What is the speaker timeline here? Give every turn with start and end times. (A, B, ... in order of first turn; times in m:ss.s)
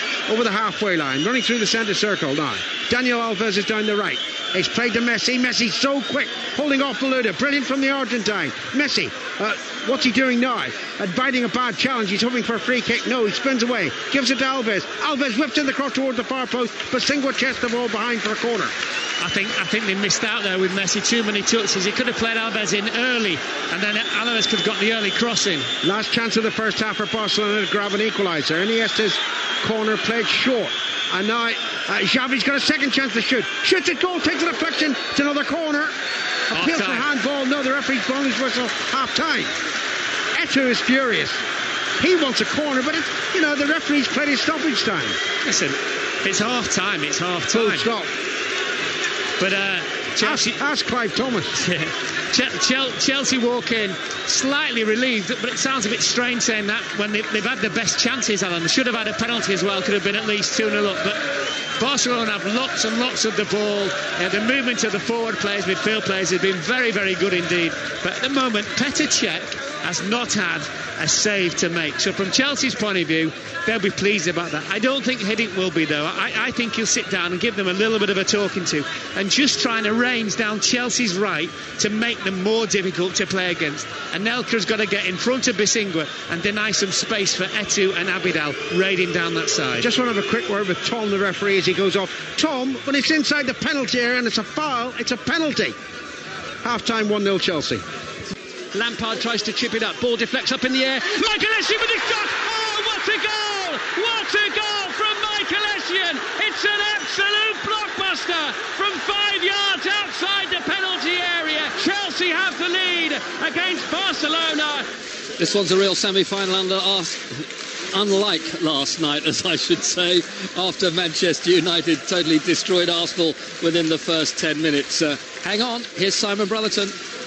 0:00.3-0:18.7 A
0:19.2-0:25.7 B
0:25.8-0:35.9 A
0:36.5-0:39.5 A
0:36.5-0:37.1 B
0:40.3-0:41.4 A
0:42.0-0:45.2 A
0:45.4-0:47.9 B
0:47.5-0:48.1 A
0:49.4-0:50.6 B
0:50.2-0:51.6 A
0:51.5-1:01.3 B
1:01.8-1:29.9 B
1:29.8-1:35.8 A
1:36.6-1:37.8 A
1:38.7-1:54.9 C
1:55.4-2:07.0 D